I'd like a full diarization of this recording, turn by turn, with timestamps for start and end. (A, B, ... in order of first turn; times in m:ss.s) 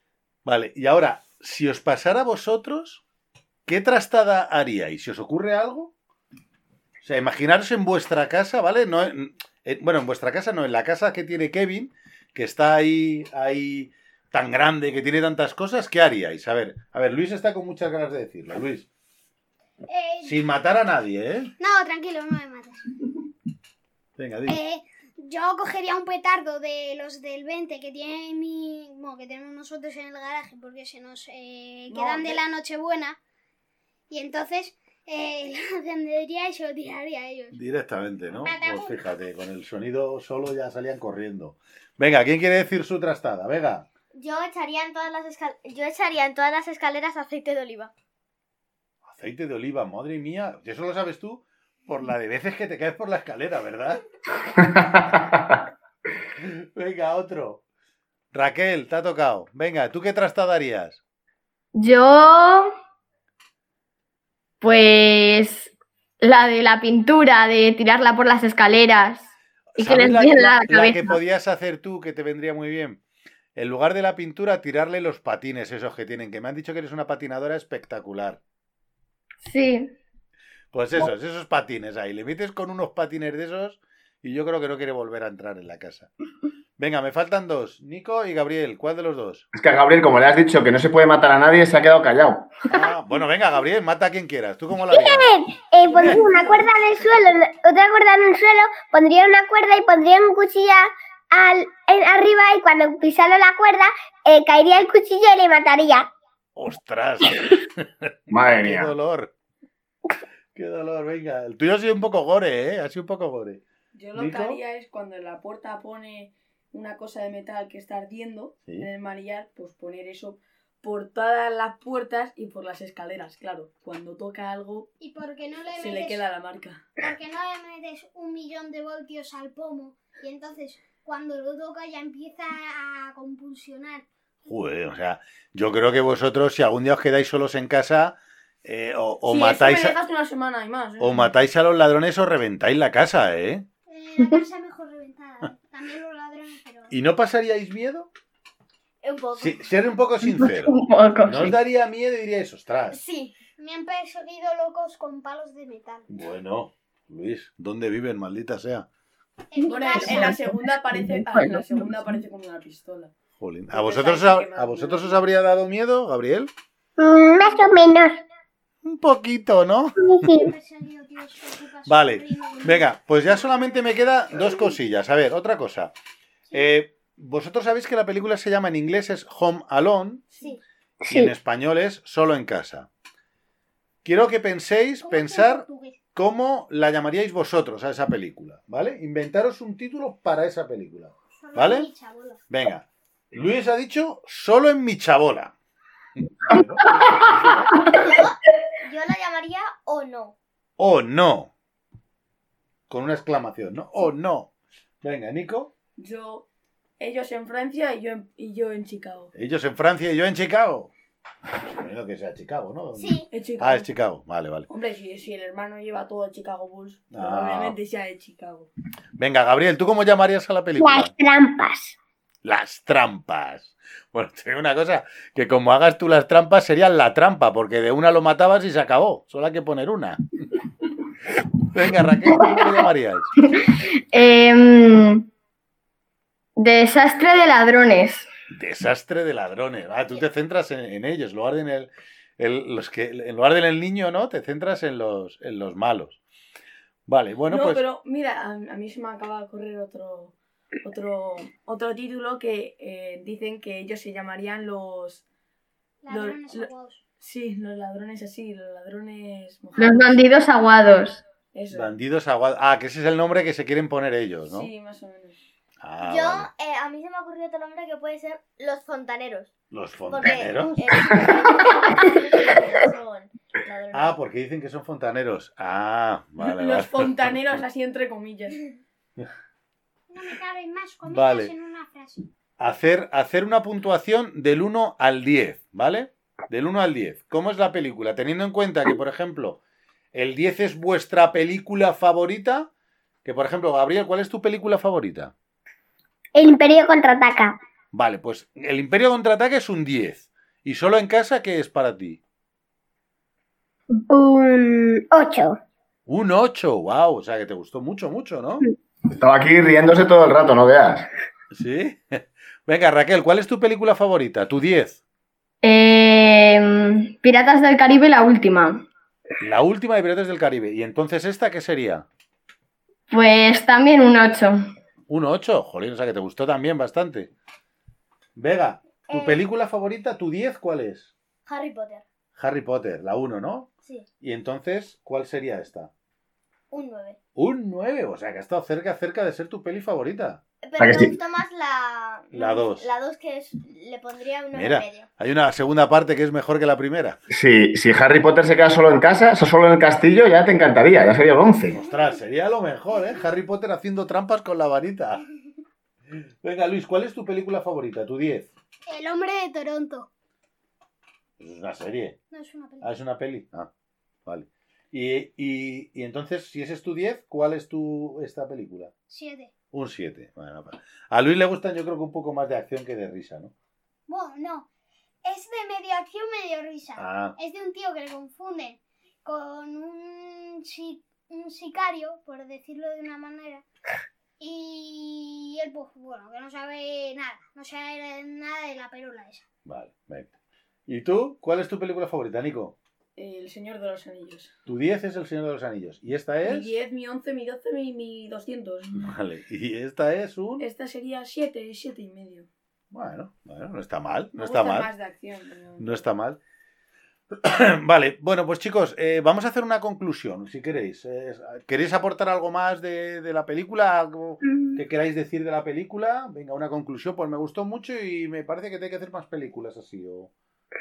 0:00.4-0:03.0 A
0:03.6-0:05.9 A
0:07.0-0:18.9 A
0:19.9-0:20.4 B
0:20.2-0:21.5 A
0:21.6-0:22.9 B
0:24.2-0:24.6 A
0:24.5-0:33.2 B
0:34.1-0:37.6 B
0:37.5-0:43.9 A
0:38.3-0:39.0 B
0:44.1-0:47.9 C
0:49.0-0:54.0 A
0:54.6-0:55.5 D
0:56.4-0:57.6 A
0:58.3-1:01.0 A
1:01.8-1:02.7 E
1:04.6-1:11.2 E
1:09.8-1:13.0 A
1:13.6-1:18.4 A
1:19.4-1:19.9 E
1:20.7-1:26.1 A
1:26.8-1:29.4 A
1:29.5-1:32.6 D
1:32.7-1:35.3 A
1:34.9-1:46.1 F
1:35.9-1:36.2 A
1:46.6-1:49.3 A
1:48.3-1:48.9 D
1:50.5-1:53.6 A
1:54.0-2:04.9 G
1:54.2-1:54.6 A
2:05.0-2:06.2 B
2:05.8-2:06.9 G
2:07.0-2:14.0 B
2:14.4-2:20.0 A
2:19.2-2:21.4 G
2:21.0-2:23.6 A
2:23.9-2:26.9 B
2:26.9-2:28.1 A
2:29.0-2:29.7 C
2:29.4-2:33.0 A
2:30.2-2:31.5 E
2:32.9-2:33.4 C
2:33.6-2:36.1 B
2:36.1-2:38.9 A
2:39.5-2:40.5 B
2:39.6-2:43.1 G
2:40.1-2:42.1 E
2:43.4-2:46.5 A
2:43.7-2:45.2 G
2:47.0-2:48.2 F
2:48.8-2:50.0 A
2:50.0-2:50.5 F
2:50.3-2:53.7 B
2:51.9-2:55.9 A
2:56.5-3:00.2 A
3:01.0-3:01.3 F
3:01.1-3:02.9 A
3:04.0-3:11.9 A
3:05.0-3:06.0 B
3:11.4-3:12.4 B
3:12.5-3:15.5 A
3:16.2-3:17.7 A
3:16.5-3:17.2 E
3:17.8-3:18.1 E
3:18.0-3:20.4 C
3:20.8-3:21.5 A
3:22.9-3:24.5 A
3:25.0-3:25.7 A
3:26.0-3:26.5 G
3:27.0-3:29.3 G
3:29.3-3:30.9 A
3:31.6-3:34.7 A
3:33.0-3:33.3 B
3:33.3-3:33.9 G
3:34.7-3:38.7 G
3:37.1-3:37.8 A
3:39.2-3:41.1 A
3:40.8-3:42.0 F
3:42.4-3:50.2 A
3:51.7-3:53.3 A
3:53.4-3:55.2 E
3:56.6-3:58.3 E
3:58.5-4:06.2 A
4:07.1-4:07.8 A
4:07.5-4:15.2 G
4:16.0-4:17.0 B
4:16.1-4:20.3 G
4:19.8-4:21.2 E
4:21.5-4:21.9 G
4:21.7-4:24.7 A
4:24.5-4:25.4 G
4:25.8-4:26.5 A
4:26.0-4:29.5 C
4:29.7-4:31.0 A
4:30.1-4:34.2 C
4:33.9-4:37.4 A
4:36.4-4:38.6 G
4:40.1-4:42.3 B
4:41.1-4:41.5 A
4:42.6-4:49.6 A
4:50.1-4:52.7 A
4:53.2-4:55.3 A
4:56.3-4:57.6 F
4:57.9-5:02.2 A
5:04.0-5:05.6 F
5:06.1-5:08.6 A
5:09.1-5:11.1 D
5:11.5-5:15.0 A
5:15.6-5:18.8 E
5:19.4-5:22.0 A
5:23.1-5:24.6 E
5:25.1-5:27.3 A
5:28.4-5:31.1 A
5:29.1-5:29.4 C
5:31.5-5:32.0 C
5:32.4-5:33.7 A
5:34.2-5:35.9 A
5:36.7-5:37.2 C
5:37.4-5:40.4 A
5:40.6-5:45.1 C
5:40.8-5:41.2 D
5:42.3-5:42.9 A
5:44.5-5:47.2 A
5:47.3-5:51.8 D
5:51.7-5:55.2 A
5:56.4-5:58.5 A
5:58.9-6:00.1 B
6:01.4-6:02.2 A
6:02.3-6:02.9 B
6:02.8-6:03.7 A
6:04.2-6:08.9 A
6:09.1-6:09.5 B
6:09.7-6:13.5 A
6:14.1-6:14.7 B
6:15.2-6:23.6 B
6:17.0-6:17.3 A
6:24.4-6:29.4 B
6:29.7-6:30.3 A
6:30.9-6:32.8 A
6:33.2-6:34.5 G
6:34.7-6:36.7 A
6:36.4-6:39.1 G
6:39.0-6:40.7 A
6:40.6-6:42.5 G
6:42.9-6:44.9 A
6:44.3-6:46.0 G
6:45.8-6:46.4 A
6:47.3-7:00.3 A
6:54.5-6:54.8 F